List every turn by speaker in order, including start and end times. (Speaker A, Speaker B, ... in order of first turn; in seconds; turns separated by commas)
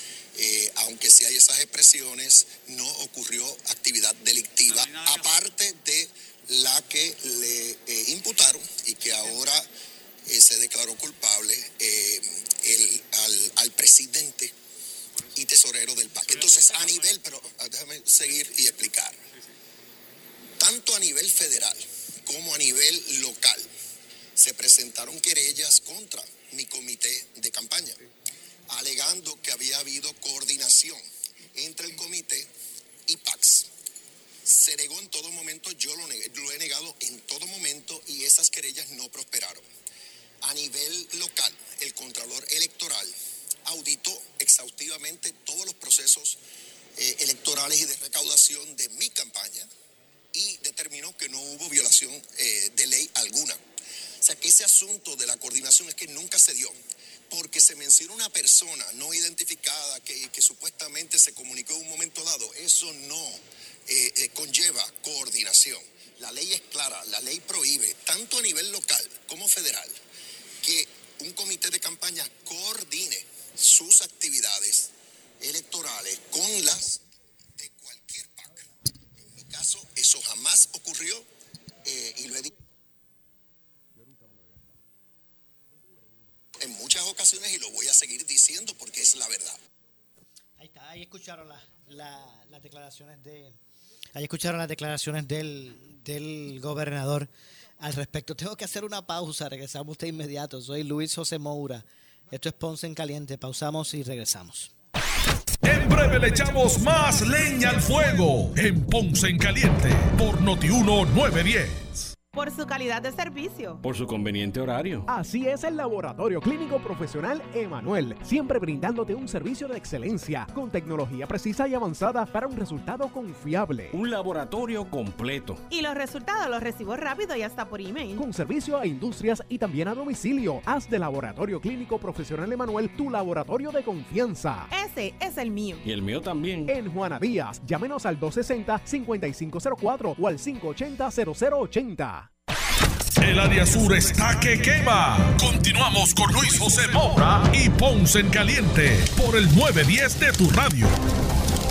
Speaker A: 0.3-9.7, Speaker A: 10.3-14.5, Speaker A: 15.3-19.2, Speaker A: 20.6-23.7, Speaker A: 24.4-28.0, Speaker A: 28.7-31.0, Speaker A: 31.6-32.5, Speaker A: 33.1-33.7, Speaker A: 34.5-39.6, Speaker A: 40.4-43.1, Speaker A: 43.6-46.4, Speaker A: 47.0-49.7, Speaker A: 50.3-53.6, Speaker A: 54.2-56.8, Speaker A: 57.3-70.0, Speaker A: 70.6-77.0, Speaker A: 77.6-81.3, Speaker A: 81.8-82.5, Speaker A: 86.6-89.6, Speaker B: 90.6-93.6, Speaker B: 94.1-97.3, Speaker B: 97.8-104.7, Speaker C: 105.6-112.1, Speaker D: 112.3-113.8, Speaker E: 113.8-115.0, Speaker F: 115.1-124.0, Speaker E: 123.9-125.6, Speaker D: 125.7-128.2, Speaker F: 128.2-134.7, Speaker D: 134.7-135.8, Speaker E: 135.8-136.7, Speaker F: 136.7-142.3, Speaker C: 143.2-150.9